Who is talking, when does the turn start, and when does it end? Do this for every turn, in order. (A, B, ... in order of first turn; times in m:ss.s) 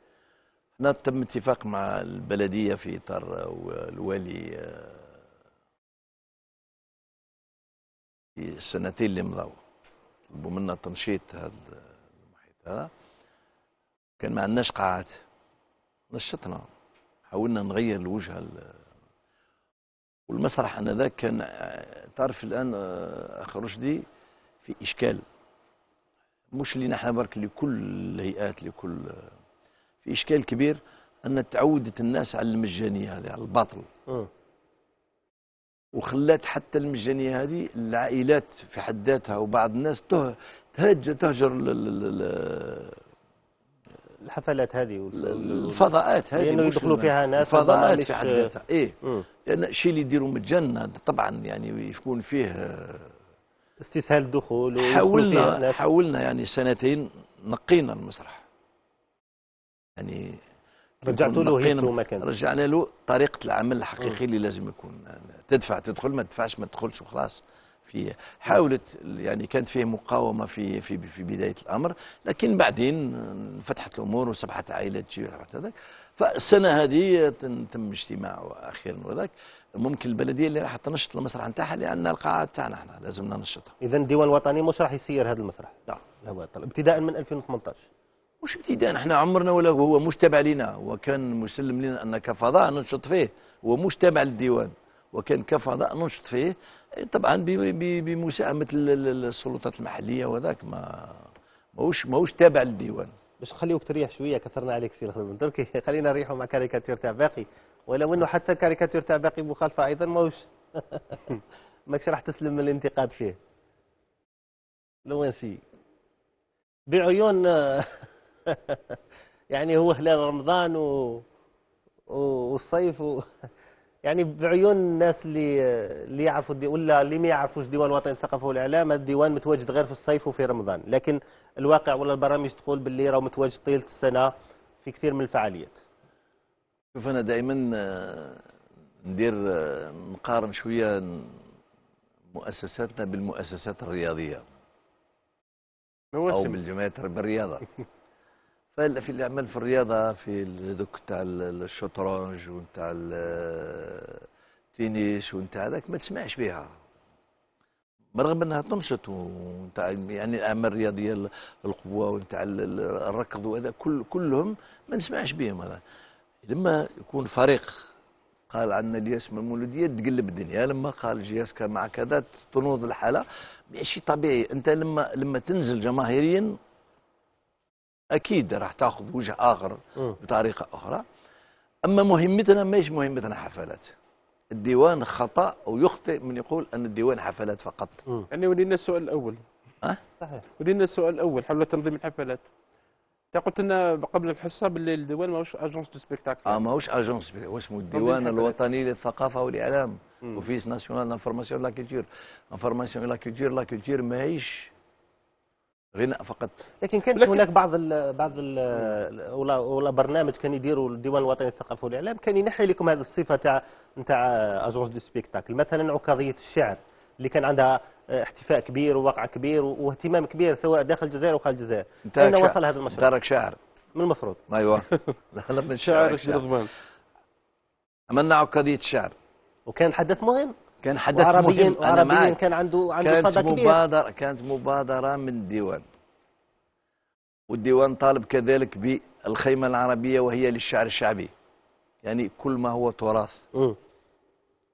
0:00.8-0:05.2 A
0:08.4-0:09.6 A
0:10.3-0:12.9 A
0:14.2-0:15.2 A
0:16.1-0:16.7 A
0:17.3-0:18.8 A
0:20.3-0:24.0 A
0:24.6-0:25.2 A
0:26.5-0:29.3 A
0:30.0-0:33.9 A
0:35.9-0:43.0 A
0:44.2-0:48.5 B
0:45.1-0:53.1 A
0:53.8-0:55.8 B
0:54.8-0:58.4 A
1:00.0-1:00.4 A
1:01.0-1:02.2 B
1:01.0-1:23.8 A
1:23.8-1:27.8 B
1:28.4-1:43.1 A
1:43.4-1:53.4 B
1:55.0-1:55.6 B
1:56.9-1:59.0 B
1:59.5-2:01.2 B
2:02.1-2:03.3 B
2:04.0-2:14.3 B
2:14.8-2:15.8 B
2:16.9-2:18.4 A
2:19.0-2:21.4 A
2:22.3-2:24.4 A
2:26.1-2:26.6 C
2:26.3-2:27.6 A
2:28.7-2:36.7 A
2:38.2-2:45.8 A
2:46.4-2:47.9 A
2:48.5-2:56.6 A
2:58.1-3:01.0 A
3:01.8-3:03.9 A
3:04.5-3:08.0 A
3:08.3-3:09.4 C
3:10.2-3:10.4 B
3:10.6-3:12.5 C
3:13.3-3:16.6 C
3:16.4-3:24.7 A
3:17.9-3:18.5 C
3:25.9-3:26.6 A
3:26.8-3:43.1 B
3:42.0-3:43.6 A
3:43.9-3:44.4 B
3:44.5-3:46.5 A
3:45.8-3:46.7 C
3:48.1-3:49.1 A
3:49.7-3:50.5 B
3:50.8-3:52.4 A
3:51.1-3:53.8 B
3:53.0-3:55.8 A
3:57.5-4:01.3 A
4:02.0-4:03.4 A